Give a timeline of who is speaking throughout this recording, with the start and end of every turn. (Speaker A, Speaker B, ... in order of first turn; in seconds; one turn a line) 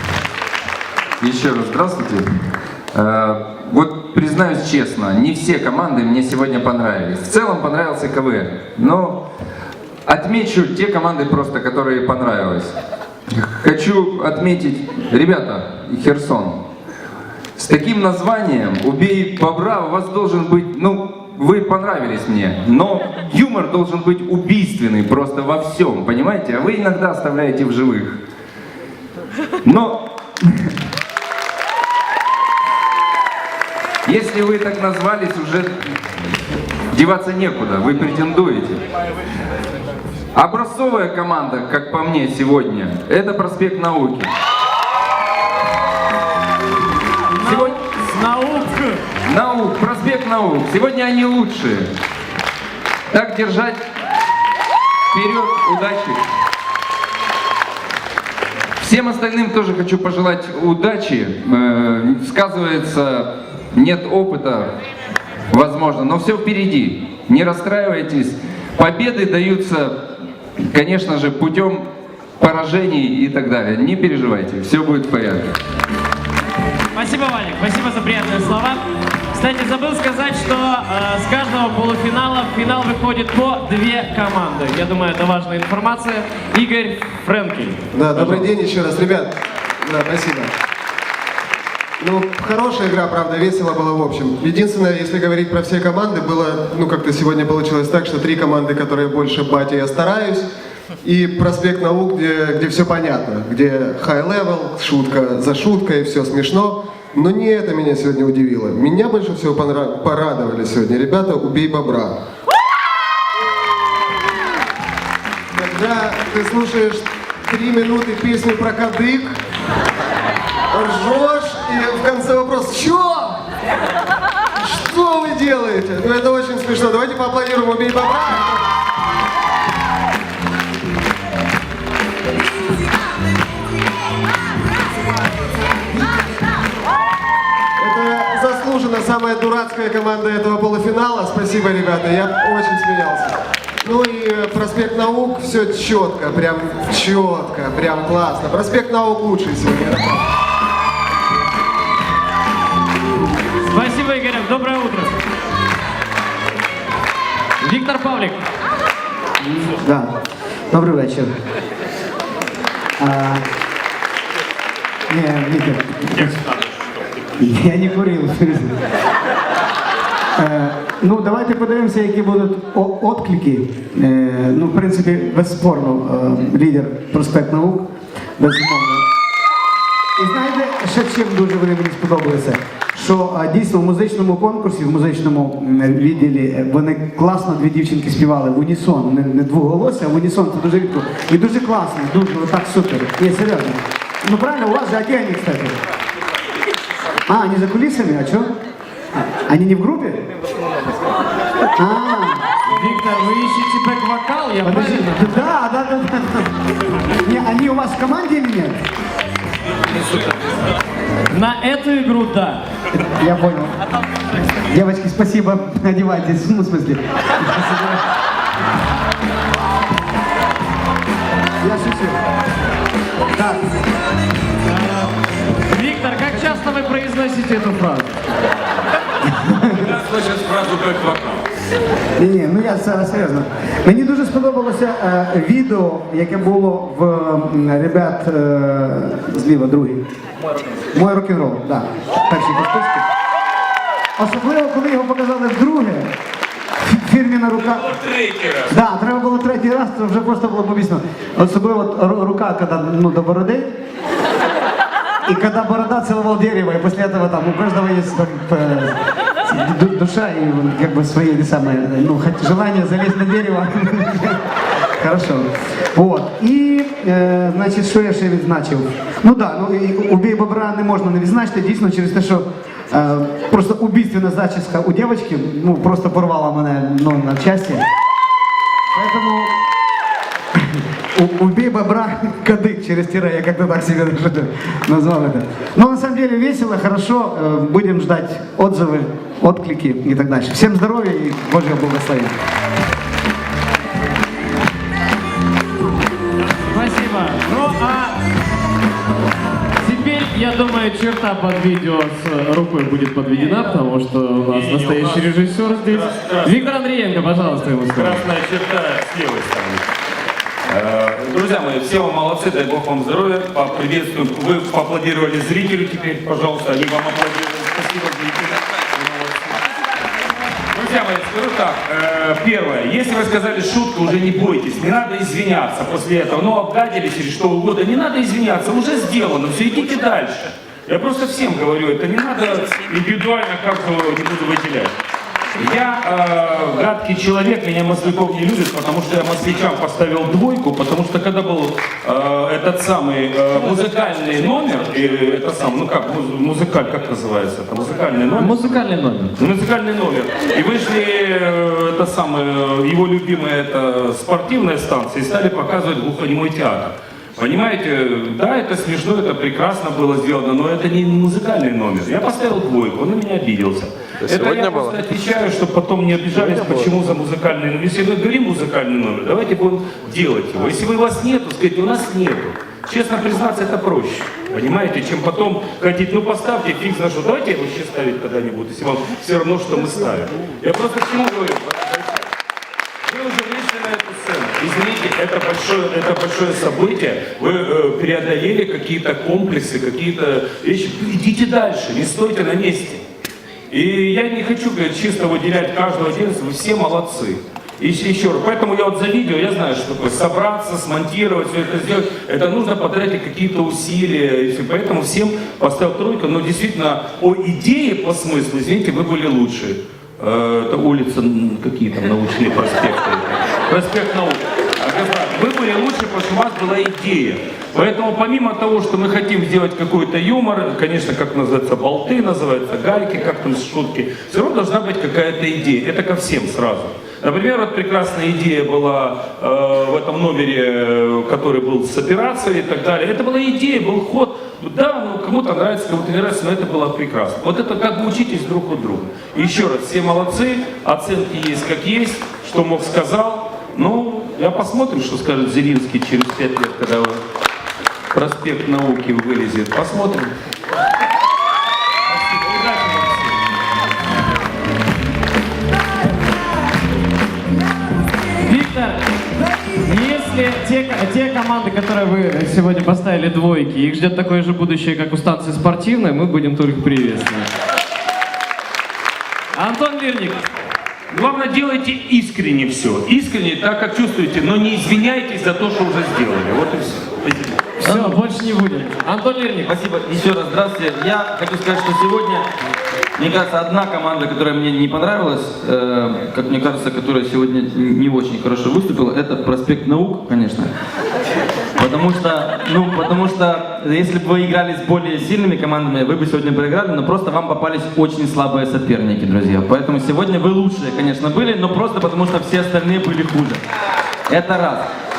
Speaker A: 1.2-2.2
Speaker A: 2.9-9.2
Speaker A: 10.1-12.7
Speaker A: 13.3-16.6
Speaker A: 17.6-28.2
Speaker A: 29.6-30.7
Speaker A: 34.0-35.8
Speaker A: 36.9-38.8
Speaker A: 40.3-44.3
Speaker B: 47.3-49.0
Speaker A: 47.4-47.7
Speaker A: 49.2-51.9
Speaker A: 53.1-53.8
Speaker A: 55.1-56.2
Speaker A: 58.8-64.7
Speaker A: 65.5-70.0
Speaker A: 70.6-71.9
Speaker A: 72.4-75.6
Speaker B: 76.9-78.8
Speaker B: 79.3-88.5
Speaker C: 87.9-90.5
Speaker C: 92.0-100.5
Speaker C: 101.0-112.2
Speaker C: 115.5-119.4
Speaker C: 120.7-123.4
Speaker C: 124.6-128.6
Speaker C: 137.8-150.2
Speaker B: 153.6-155.2
Speaker B: 157.6-158.4
Speaker D: 159.4-160.1
Speaker D: 160.7-161.3
Speaker D: 163.0-163.4
Speaker D: 165.1-166.4
Speaker D: 167.4-168.7
Speaker D: 170.4-179.0
Speaker D: 180.2-195.7
Speaker D: 197.3-198.5
Speaker D: 199.1-200.2
Speaker D: 201.8-202.4
Speaker B: 202.7-205.3
Speaker D: 204.6-206.5
Speaker D: 207.2-208.8
Speaker B: 211.3-212.6
Speaker D: 212.9-213.7
Speaker D: 214.7-218.0
Speaker D: 221.6-222.2
Speaker D: 223.3-223.7
Speaker B: 224.7-225.1
Speaker B: 225.7-228.1
Speaker D: 229.4-229.9
Speaker E: 229.8-231.4
Speaker D: 232.2-240.0
Speaker D: 240.9-243.0
Speaker D: 244.2-246.1
Speaker D: 246.8-247.9
Speaker E: 247.6-248.8
Speaker D: 248.7-253.7
Speaker D: 255.2-258.9
Speaker D: 259.4-264.4
Speaker D: 265.0-277.8
Speaker D: 278.9-279.5
Speaker D: 280.7-292.3
Speaker B: 296.7-298.2
Speaker B: 299.8-308.2
Speaker E: 304.5-305.3
Speaker E: 305.9-306.7
Speaker E: 307.9-309.9
Speaker E: 310.7-319.5
Speaker E: 320.7-334.9
Speaker E: 335.6-348.8
Speaker B: 348.4-349.3
Speaker E: 349.4-382.2
Speaker E: 383.1-393.0
Speaker E: 393.7-447.2
Speaker E: 448.1-450.3
Speaker E: 452.3-453.3
Speaker B: 458.4-459.0
Speaker B: 459.8-467.5
Speaker B: 469.5-470.4
Speaker E: 471.1-477.6
Speaker B: 477.8-479.8
Speaker F: 477.8-478.2
Speaker F: 479.6-482.5
Speaker F: 483.2-490.7
Speaker F: 491.8-503.6
Speaker F: 504.3-504.9